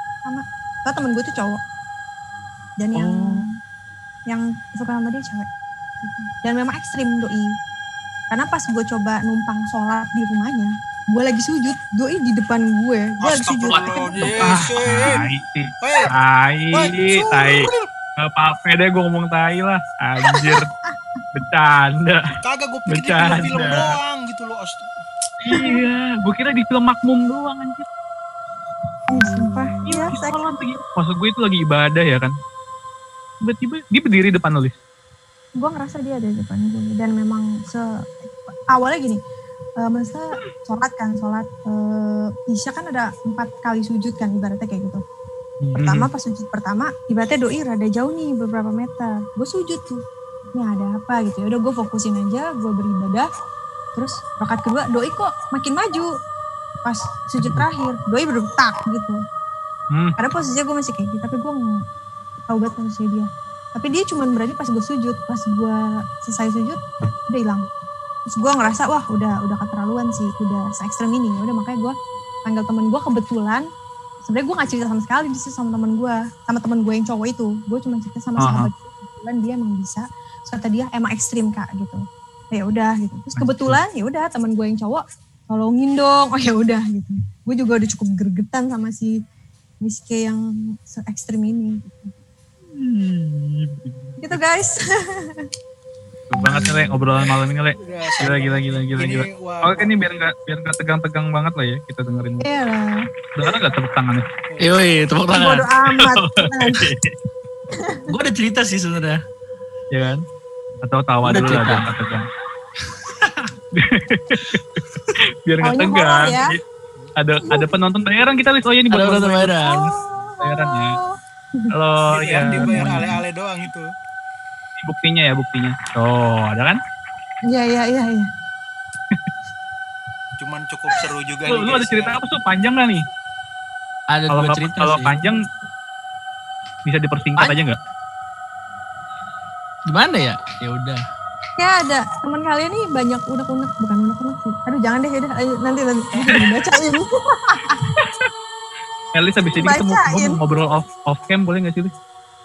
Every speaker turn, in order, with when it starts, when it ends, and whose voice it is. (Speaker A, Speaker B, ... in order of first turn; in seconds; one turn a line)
Speaker A: 0.2-1.6
Speaker A: 2.8-3.5
Speaker B: 3.0-3.5
Speaker A: 4.3-5.5
Speaker A: 6.0-7.5
Speaker A: 8.3-14.5
Speaker C: 13.2-15.3
Speaker D: 13.7-14.6
Speaker B: 14.4-20.7
Speaker C: 15.8-16.1
Speaker C: 16.7-17.9
Speaker A: 20.2-21.0
Speaker B: 21.4-22.3
Speaker C: 22.4-24.9
Speaker B: 22.9-24.0
Speaker B: 25.4-27.9
Speaker A: 25.5-25.8
Speaker A: 29.1-30.4
Speaker B: 29.9-32.3
Speaker B: 33.4-34.8
Speaker A: 35.6-37.9
Speaker A: 38.7-39.2
Speaker A: 39.8-45.0
Speaker B: 45.6-46.1
Speaker A: 45.8-50.0
Speaker A: 50.5-53.3
Speaker A: 54.0-56.1
Speaker A: 56.9-59.2
Speaker B: 57.4-57.7
Speaker B: 59.9-60.2
Speaker A: 60.2-61.6
Speaker A: 62.5-67.7
Speaker A: 68.3-73.7
Speaker A: 74.3-89.1
Speaker B: 78.4-78.7
Speaker B: 83.3-83.8
Speaker A: 89.8-92.1
Speaker B: 92.7-94.4
Speaker A: 94.2-95.5
Speaker B: 96.3-102.5
Speaker C: 97.1-99.9
Speaker A: 102.4-103.0
Speaker B: 103.3-104.2
Speaker D: 104.6-105.7
Speaker A: 105.3-106.9
Speaker B: 106.0-107.1
Speaker A: 107.8-108.1
Speaker D: 108.1-109.2
Speaker B: 109.9-110.2
Speaker B: 110.8-112.3
Speaker D: 111.2-111.9
Speaker D: 113.0-113.5
Speaker B: 113.8-114.6
Speaker B: 115.5-116.6
Speaker A: 115.6-116.6
Speaker B: 117.2-119.7
Speaker A: 117.4-117.7
Speaker D: 118.9-119.9
Speaker A: 119.6-121.7
Speaker B: 120.4-121.0
Speaker B: 121.7-123.2
Speaker C: 122.1-123.9
Speaker A: 122.4-123.2
Speaker B: 124.8-126.8
Speaker A: 127.5-128.3
Speaker C: 130.4-132.2
Speaker B: 131.5-133.0
Speaker D: 134.1-135.2
Speaker B: 134.3-135.4
Speaker B: 136.8-137.8
Speaker D: 139.9-141.0
Speaker A: 141.6-147.8
Speaker B: 146.3-146.7
Speaker B: 149.1-151.9
Speaker A: 149.6-150.4